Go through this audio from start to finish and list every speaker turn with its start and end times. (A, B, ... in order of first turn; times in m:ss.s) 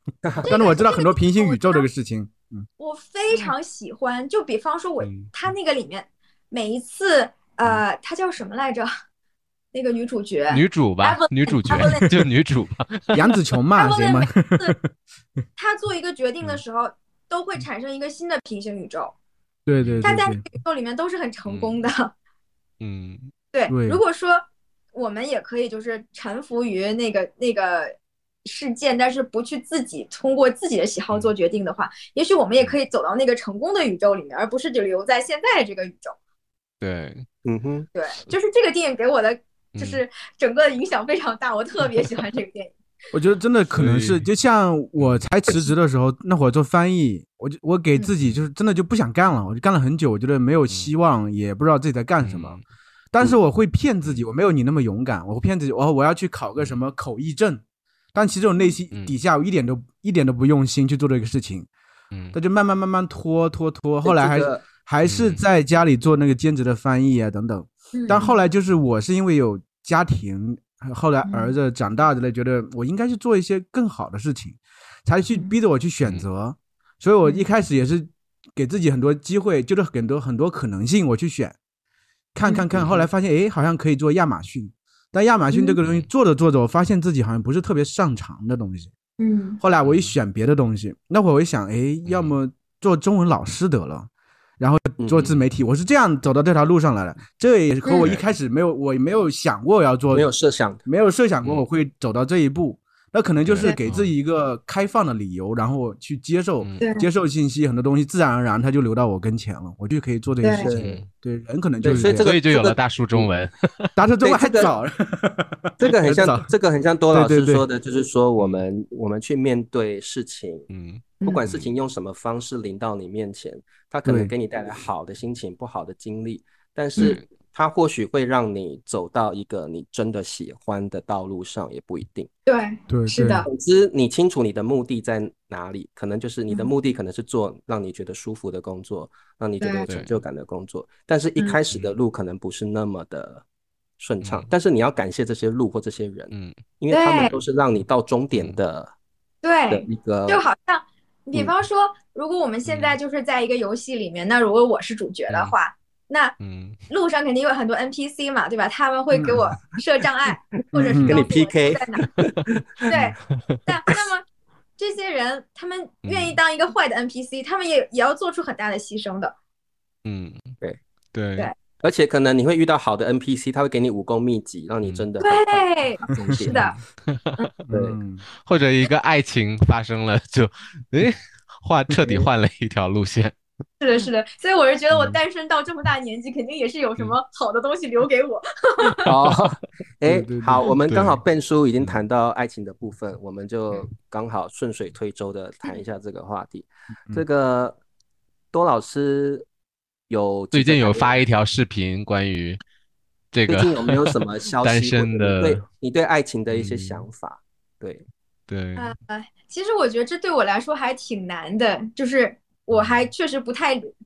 0:00.2-0:00.6 A
0:00.4-0:01.9 B
0:00.4-0:02.7 C
0:02.8-0:08.9 B
0:05.0-0:05.3 D
0:09.7-0:12.2 B
0:10.5-0:13.2 D
0:11.7-0:12.0 C
0:13.1-0:14.9 C
0:13.8-0:14.8 B
0:15.6-0:19.1 B
0:19.7-0:20.4 C
0:19.8-0:20.1 D
0:20.0-0:22.1 B
0:21.5-0:21.8 D
0:22.8-0:23.3 D
0:23.5-0:36.2 B
0:23.7-0:24.0 C
0:36.8-0:37.3 D
0:37.4-0:37.9 A
0:38.0-0:42.7 B
0:39.8-0:40.0 D
0:43.1-0:52.6 C
0:43.7-0:44.3 D
0:45.0-0:45.2 D
0:52.2-0:52.6 D
0:53.1-0:57.6 C
0:58.1-1:01.7 C
1:02.3-1:21.6 C
1:04.0-1:04.6 A
1:05.0-1:05.4 D
1:07.9-1:08.4 B
1:11.2-1:11.6 B
1:22.3-1:28.9 C
1:22.7-1:23.0 D
1:25.5-1:25.8 B
1:29.2-1:29.6 B
1:29.6-1:40.3 C
1:29.8-1:30.2 D
1:32.0-1:32.4 D
1:35.0-1:35.3 A
1:37.8-1:38.1 B
1:38.0-1:38.3 D
1:40.1-1:40.8 A
1:40.9-1:52.3 C
1:43.4-1:44.1 D
1:46.6-1:46.8 D
1:46.8-1:47.1 B
1:50.4-1:50.7 B
1:50.6-1:50.9 A
1:50.8-1:51.1 D
1:51.8-1:53.3 A
1:51.9-1:53.9 D
1:54.0-1:56.5 C
1:54.2-1:54.7 A
1:55.8-2:00.7 A
1:57.1-1:57.6 C
1:58.4-1:58.6 D
2:00.7-2:01.7 D
2:01.2-2:12.3 A
2:04.0-2:04.3 C
2:07.0-2:07.3 D
2:12.5-2:13.5 B
2:12.9-2:13.4 C
2:13.5-2:23.4 A
2:19.6-2:19.9 B
2:19.9-2:20.2 D
2:24.0-2:28.9 A
2:24.2-2:24.5 D
2:26.3-2:26.6 D
2:26.9-2:27.4 B
2:28.3-2:28.6 D
2:29.4-2:36.4 B
2:29.7-2:30.4 A
2:32.6-2:33.0 D
2:35.3-2:35.6 D
2:36.4-2:36.8 D
2:36.9-2:42.0 B
2:40.7-2:41.2 C
2:40.9-2:42.9 A
2:42.9-2:44.2 B
2:43.3-2:43.6 D
2:44.8-2:49.3 B
2:46.0-2:46.4 D
2:50.0-2:50.6 D
2:51.1-2:51.5 D
2:51.8-2:56.6 A
2:55.2-2:56.8 B
2:56.5-2:57.4 D
2:57.7-2:58.2 C
2:57.7-2:58.0 A
2:58.4-3:03.4 D
3:03.8-3:09.0 B
3:04.9-3:05.2 D
3:09.0-3:17.8 A
3:10.0-3:10.7 C
3:10.9-3:11.2 D
3:18.5-3:19.5 A
3:20.1-3:21.2 A
3:20.5-3:22.6 D
3:23.3-3:25.6 D
3:23.5-3:28.1 A
3:26.5-3:27.1 D
3:28.5-3:28.9 D
3:28.8-3:33.9 B
3:32.7-3:33.1 D